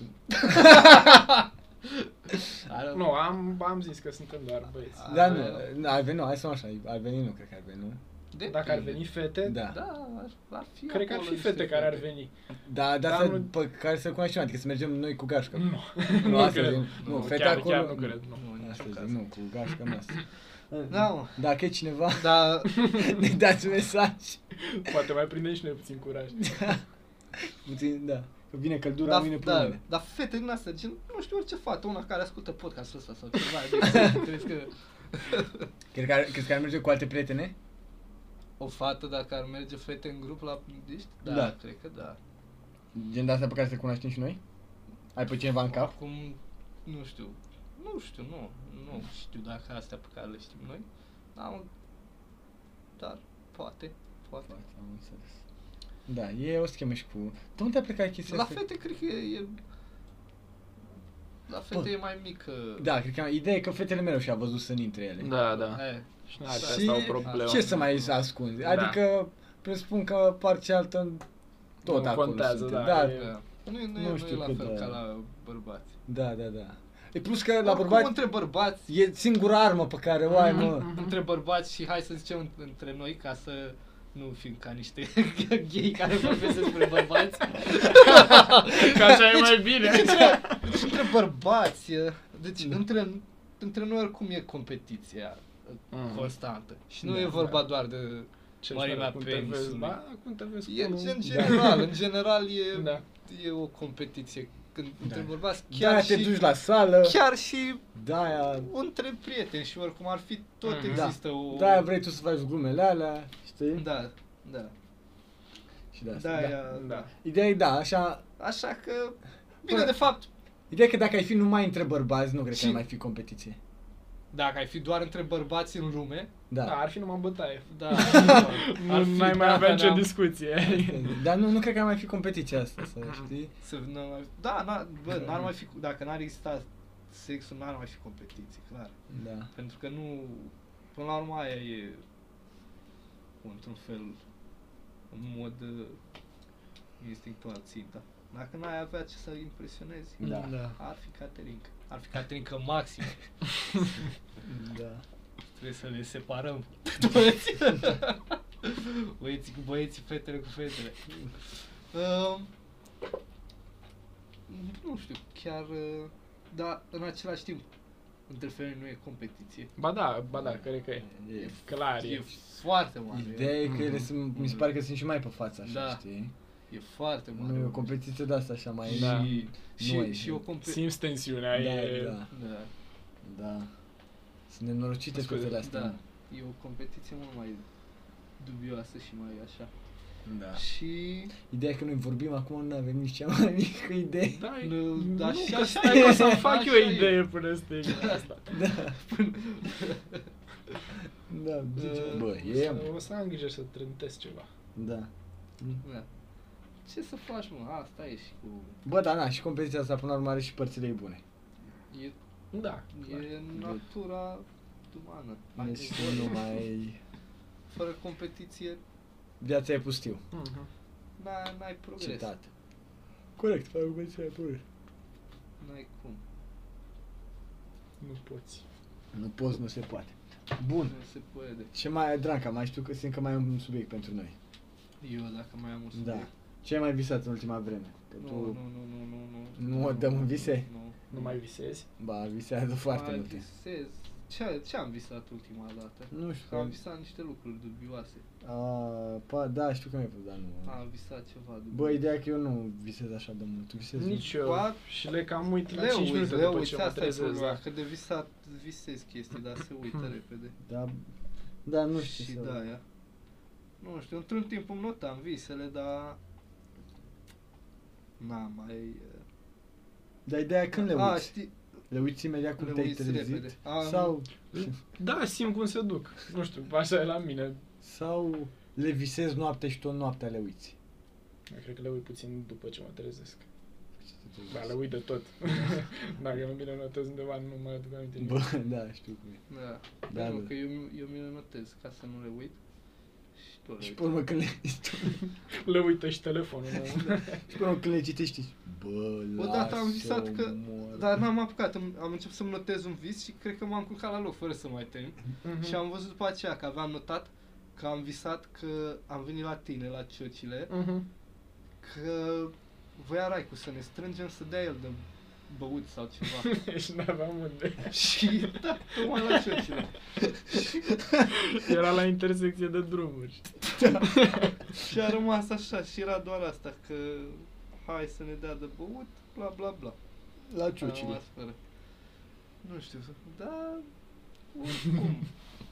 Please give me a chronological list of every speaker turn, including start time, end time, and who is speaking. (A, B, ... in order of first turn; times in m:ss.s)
0:00.3-0:03.2 A
0:00.3-0:01.1 B
0:02.9-0:05.5 C
0:04.9-0:05.7 A
0:05.1-0:08.0 B
0:08.3-0:09.1 A
0:08.5-0:09.6 C
0:09.4-0:09.8 B
0:09.6-0:12.1 A
0:10.9-0:12.3 C
0:12.6-0:24.4 B
0:13.0-0:13.5 C
0:15.5-0:18.4 C
0:16.2-0:19.2 A
0:20.9-0:21.4 A
0:22.1-0:22.8 A
0:24.6-0:26.6 C
0:26.4-0:26.8 B
0:27.4-0:29.8 B
0:29.0-0:35.6 A
0:33.8-0:34.2 B
0:35.9-0:37.5 B
0:38.6-0:42.2 A
0:41.2-0:41.5 B
0:42.9-0:44.4 B
0:45.1-0:45.9 B
0:45.7-0:51.7 A
0:53.0-0:54.5 A
0:54.5-0:55.4 B
0:56.1-0:58.6 B
0:58.3-0:59.6 A
1:01.5-1:02.9 A
1:02.8-1:05.4 B
1:05.2-1:07.7 C
1:05.6-1:08.1 A
1:06.5-1:11.2 B
1:08.6-1:09.0 C
1:11.8-1:13.3 B
1:11.8-1:13.3 C
1:12.9-1:15.9 A
1:13.9-1:15.0 B
1:16.1-1:18.2 B
1:17.6-1:18.9 A
1:18.9-1:20.9 B
1:20.4-1:21.1 C
1:20.6-1:40.0 A
1:27.8-1:30.9 C
1:29.9-1:30.2 B
1:35.9-1:36.3 C
1:37.0-1:37.6 B
1:38.6-1:41.9 C
1:40.6-1:46.4 A
1:41.2-1:41.7 B
1:42.7-1:43.0 C
1:45.0-1:47.2 B
1:47.0-1:47.8 A
1:47.9-1:48.7 B
1:48.6-1:51.9 A
1:50.6-1:51.1 C
1:50.9-1:53.9 B
1:53.7-1:54.7 A
1:55.9-1:56.6 B
1:56.1-1:57.1 A
1:56.7-1:57.1 C
1:57.2-1:58.2 B
1:58.4-2:00.3 A
1:59.7-1:59.9 B
2:00.7-2:03.6 B
2:02.5-2:02.8 A
2:04.3-2:06.3 A
2:06.5-2:06.8 B
2:06.6-2:11.2 C
2:07.7-2:10.1 A
2:10.7-2:13.5 B
2:13.6-2:18.9 A
2:19.1-2:19.5 B
2:19.5-2:22.0 A
2:23.4-2:24.2 A
2:25.1-2:26.0 A
2:27.0-2:33.2 A
2:30.2-2:30.6 B
2:34.4-2:35.0 B
2:35.5-2:41.0 A
2:41.9-2:42.5 A
2:44.5-2:47.7 A
2:48.3-2:49.7 A
2:49.8-2:52.2 C
2:50.3-2:51.6 B
2:51.4-2:53.6 A
2:53.1-2:56.3 B
2:53.6-2:54.1 C
2:54.3-2:54.7 A
2:55.6-2:56.0 A
2:56.7-2:57.9 A
2:57.4-3:00.4 B
2:58.8-3:00.8 A
2:58.9-2:59.3 C
3:00.6-3:02.2 C
3:01.5-3:02.3 B
3:02.3-3:02.7 A
3:03.2-3:03.7 B
3:04.5-3:06.0 B
3:05.2-3:05.5 C
3:05.6-3:07.6 A
3:08.4-3:09.7 A
3:10.2-3:10.6 B
3:10.5-3:11.3 A
3:11.3-3:14.5 B
3:14.4-3:18.6 C
3:14.6-3:17.2 A
3:15.8-3:16.4 B
3:17.8-3:18.2 A
3:18.5-3:19.0 B
3:18.9-3:20.7 A
3:21.3-3:22.9 B
3:21.8-3:22.3 A
3:22.4-3:24.5 C
3:24.7-3:25.8 B
3:25.8-3:26.1 A
3:26.8-3:28.8 A
3:28.8-3:31.2 B
3:31.9-3:32.2 A
3:32.5-3:33.2 C
3:32.9-3:36.5 A
3:33.5-3:33.8 B
3:35.6-3:37.0 B
3:37.7-3:38.8 A
3:39.4-3:40.2 B
3:40.3-3:40.7 C
3:41.2-3:42.3 A
3:42.0-3:42.5 B
3:43.4-3:44.6 B
3:45.6-3:46.2 A
3:48.0-3:48.6 C
3:49.1-3:51.0 B
3:50.8-3:51.7 A
3:51.7-3:54.3 B
3:55.0-3:56.3 A
3:55.9-3:58.6 B
3:58.2-4:01.4 A
3:59.6-4:00.7 B
4:01.1-4:01.9 C
4:02.0-4:03.4 B
4:02.9-4:08.2 A
4:06.1-4:06.7 B
4:08.4-4:10.8 B
4:10.6-4:12.0 A
4:11.7-4:14.3 B
4:14.0-4:17.6 C
4:14.3-4:14.8 A
4:15.7-4:20.5 A
4:20.6-4:21.0 B
4:21.6-4:22.6 B
4:22.0-4:22.8 A
4:23.8-4:26.2 A
4:28.2-4:29.2 A
4:30.2-4:31.3 B
4:30.8-4:31.5 A
4:31.9-4:34.8 B
4:32.6-4:34.1 A
4:34.5-4:37.6 C
4:37.8-4:40.7 B
4:41.5-4:43.4 C
4:44.0-4:44.7 B
4:44.5-4:48.4 C
4:48.2-4:49.4 B
4:49.5-4:52.6 A
4:50.1-4:50.5 B
4:53.4-4:54.1 A
4:53.8-4:55.2 B
4:55.5-4:57.5 C
4:57.5-5:01.1 B
4:59.4-5:10.7 A
5:05.4-5:05.8 C
5:10.7-5:11.0 C
5:11.8-5:16.5 A
5:16.3-5:19.6 C
5:17.9-5:20.9 A
5:21.3-5:24.6 C
5:23.8-5:24.0 B
5:24.7-5:30.0 A
5:30.4-5:31.2 B
5:30.8-5:31.6 A
5:32.6-5:33.9 A
5:34.5-5:35.3 A